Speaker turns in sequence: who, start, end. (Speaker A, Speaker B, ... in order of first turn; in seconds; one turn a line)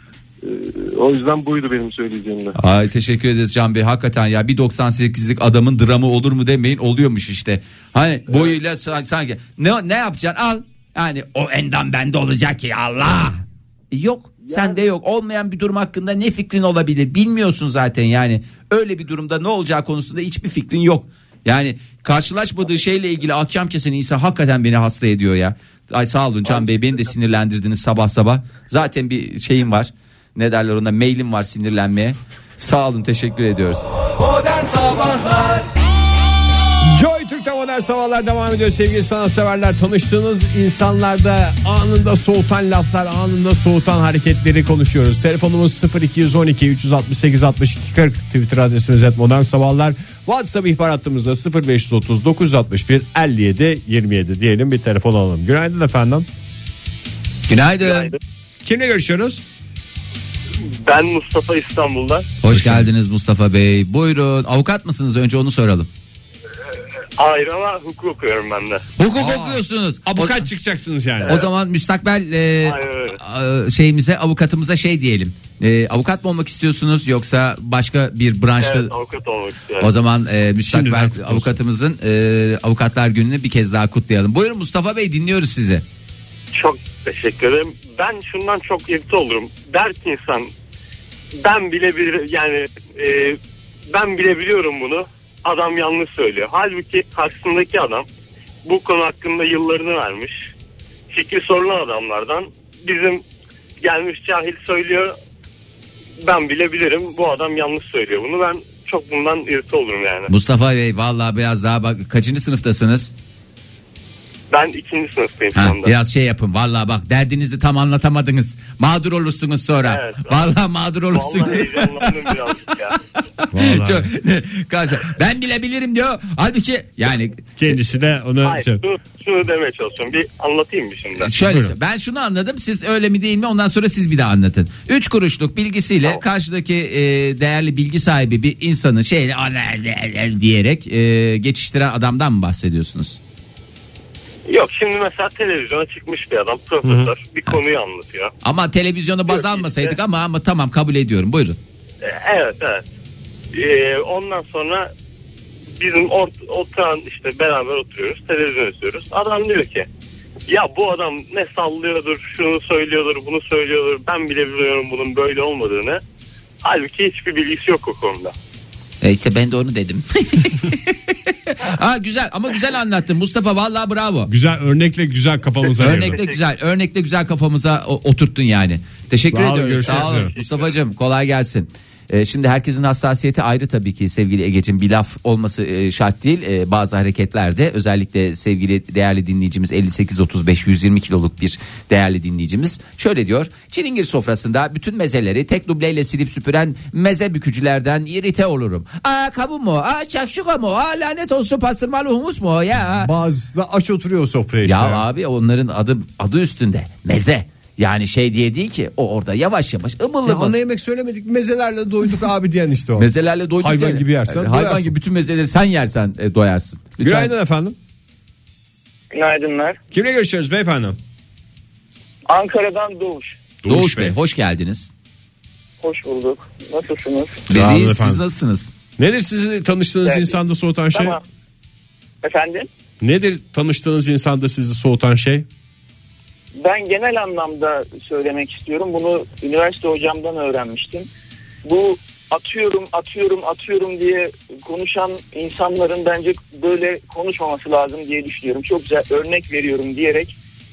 Speaker A: 0.4-2.5
Speaker B: 2.5-33.9
Speaker B: 34.4-35.6
Speaker C: 36.8-56.3
Speaker B: 57.5-58.1
Speaker D: 57.8-58.2
Speaker C: 58.6-59.4
Speaker D: 60.7-62.3
Speaker B: 62.4-65.9
Speaker C: 62.5-62.9
Speaker D: 67.2-68.8
Speaker B: 69.0-70.5
Speaker C: 69.1-71.4
Speaker B: 71.2-78.9
Speaker D: 72.6-73.2
Speaker D: 78.6-79.9
Speaker B: 79.8-85.8
Speaker C: 80.7-81.6
Speaker D: 86.5-90.5
Speaker D: 91.4-98.0
Speaker D: 98.6-100.5
Speaker D: 101.1-103.2
Speaker D: 103.8-105.2
Speaker D: 106.2-110.3
Speaker B: 110.3-113.1
Speaker D: 114.5-115.9
Speaker B: 115.5-122.1
Speaker D: 119.8-120.5
Speaker D: 121.1-123.0
Speaker B: 123.4-127.7
Speaker C: 123.5-124.1
Speaker C: 127.6-128.8
Speaker D: 128.4-131.3
Speaker B: 131.2-143.2
Speaker C: 131.4-131.7
Speaker D: 144.5-148.3
Speaker C: 146.8-147.1
Speaker B: 148.4-151.6
Speaker D: 149.3-150.0
Speaker D: 152.0-152.8
Speaker D: 153.5-154.9
Speaker D: 155.8-159.9
Speaker D: 160.5-166.0
Speaker D: 166.6-168.3
Speaker B: 169.0-174.3
Speaker C: 174.3-176.2
Speaker B: 175.8-203.1
Speaker D: 175.8-176.4
Speaker C: 179.3-180.3
Speaker D: 179.8-180.7
Speaker C: 202.8-205.0
Speaker B: 204.6-210.5
Speaker C: 210.2-214.9
Speaker B: 213.0-217.3
Speaker C: 217.0-217.8
Speaker E: 219.1-219.8
Speaker C: 219.9-221.0
Speaker E: 222.3-223.4
Speaker C: 223.6-224.1
Speaker B: 223.7-224.9
Speaker E: 225.8-227.4
Speaker B: 227.5-228.7
Speaker C: 227.5-228.2
Speaker C: 229.0-231.2
Speaker E: 230.0-230.4
Speaker E: 230.9-231.2
Speaker E: 232.2-232.7
Speaker C: 233.0-235.5
Speaker E: 236.6-241.1
Speaker E: 241.6-250.4